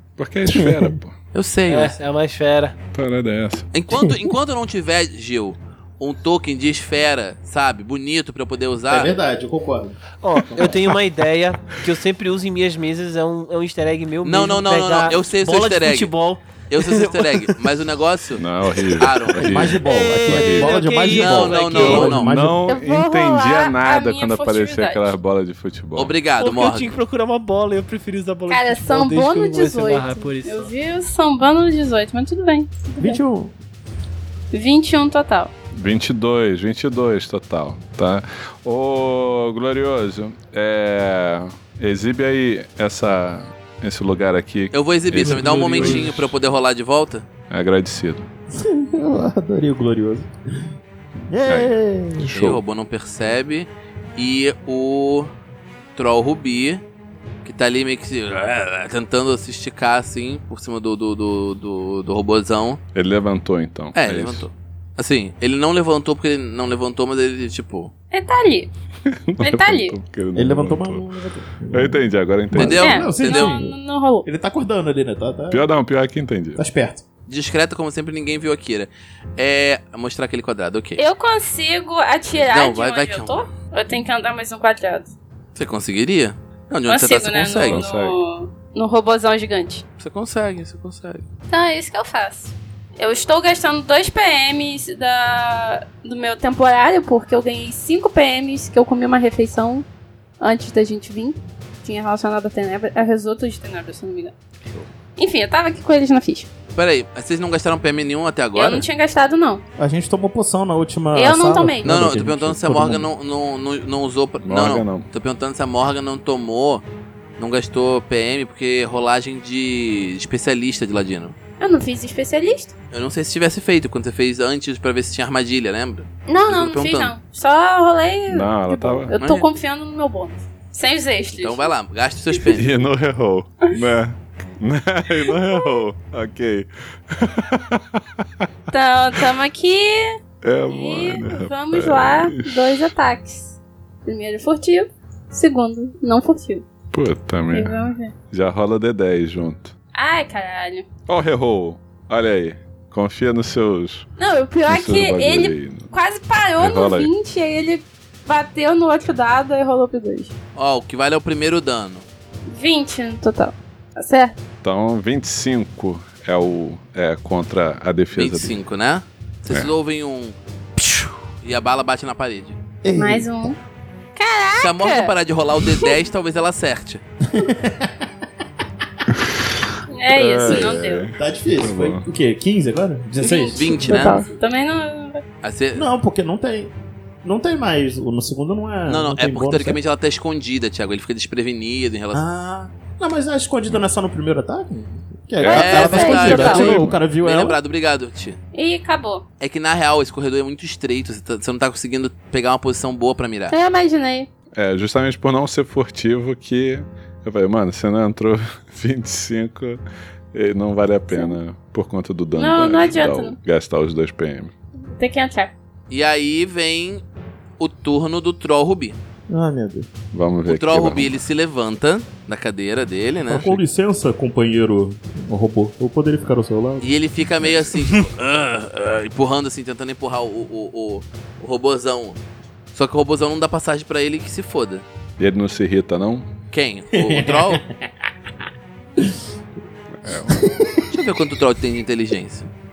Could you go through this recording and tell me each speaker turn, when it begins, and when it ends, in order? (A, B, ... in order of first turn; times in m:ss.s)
0:00.2-0:01.2 A
0:00.5-0:00.9 B
0:01.3-0:02.0 C
0:01.7-0:02.8 D
0:02.9-0:03.7 A
0:03.7-0:09.1 C
0:03.9-0:04.2 B
0:08.9-0:10.0 B
0:10.2-0:17.4 D
0:14.2-0:16.1 C
0:16.7-0:18.4 C
0:18.4-0:20.8 A
0:18.9-0:19.6 C
0:19.3-0:22.6 B
0:19.5-0:22.3 D
0:21.1-0:22.3 C
0:21.9-0:26.1 A
0:22.7-0:25.1 E
0:25.9-0:26.9 C
0:26.4-0:30.7 D
0:28.5-0:33.2 E
0:33.0-0:33.5 B
0:34.5-0:35.5 E
0:35.7-0:46.3 A
0:44.7-0:47.2 C
0:45.2-0:46.2 D
0:47.5-0:48.3 A
0:48.5-0:50.3 B
0:51.3-0:52.3 B
0:51.4-0:52.6 A
0:52.2-0:55.3 C
0:55.9-0:56.8 C
0:57.4-1:02.8 C
1:02.9-1:04.4 A
1:03.9-1:07.9 C
1:08.1-1:08.7 E
1:09.1-1:11.0 A
1:09.4-1:10.0 E
1:10.3-1:15.6 B
1:11.7-1:12.9 A
1:12.5-1:13.5 C
1:12.6-1:14.3 E
1:15.5-1:16.6 A
1:16.6-1:17.0 B
1:17.3-1:21.0 C
1:21.0-1:25.1 E
1:22.4-1:23.4 C
1:25.5-1:27.8 C
1:26.9-1:29.8 E
1:27.7-1:28.2 A
1:30.0-1:31.2 C
1:31.5-1:39.8 E
1:40.4-1:44.3 E
1:45.2-1:46.5 E
1:46.7-1:48.8 C
1:48.5-1:49.6 E
1:49.8-1:53.1 B
1:51.1-1:51.9 E
1:51.8-1:56.8 C
1:54.4-1:55.1 A
1:57.4-2:01.3 C
2:01.6-2:02.7 E
2:02.9-2:07.1 C
2:06.3-2:11.7 E
2:08.3-2:09.1 A
2:09.2-2:09.4 C
2:11.4-2:12.7 C
2:12.5-2:18.5 A
2:18.7-2:20.2 E
2:20.4-2:22.9 A
2:20.7-2:26.6 E
2:26.9-2:29.7 A
2:27.5-2:28.1 E
2:29.9-2:30.8 E
2:31.1-2:34.1 A
2:34.2-2:40.3 E
2:34.7-2:35.9 A
2:36.6-2:37.1 A
2:40.6-2:42.0 C
2:42.5-2:44.4 E
2:44.6-2:48.6 A
2:48.1-2:52.6 C
2:52.8-2:53.5 B
2:52.9-2:53.6 E
2:54.1-2:55.1 E
2:54.6-2:57.0 C
2:57.2-2:58.1 B
2:59.9-3:01.1 E
3:00.1-3:02.1 A
3:00.5-3:04.2 B
3:03.2-3:05.2 E
3:03.5-3:04.2 C
3:05.4-3:05.9 C
3:05.7-3:09.8 B
3:08.8-3:12.2 C
3:12.1-3:17.6 B
3:15.4-3:17.0 A
3:15.4-3:18.4 C
3:15.7-3:16.6 E
3:18.5-3:19.2 E
3:19.4-3:23.5 C
3:23.5-3:24.3 E
3:24.5-3:29.8 A
3:30.3-3:34.5 A
3:32.4-3:33.4 E
3:34.9-3:35.5 E
3:35.9-3:37.0 C
3:37.6-3:39.0 C
3:39.3-3:39.9 B
3:40.1-3:41.1 A
3:40.4-3:43.6 C
3:43.3-3:46.9 B
3:46.8-3:52.2 C
3:52.7-3:54.8 C
3:55.2-3:56.3 A
3:56.5-3:57.6 C
3:56.9-3:57.7 B
3:59.9-4:00.6 A
4:00.3-4:00.9 B
4:00.9-4:02.5 C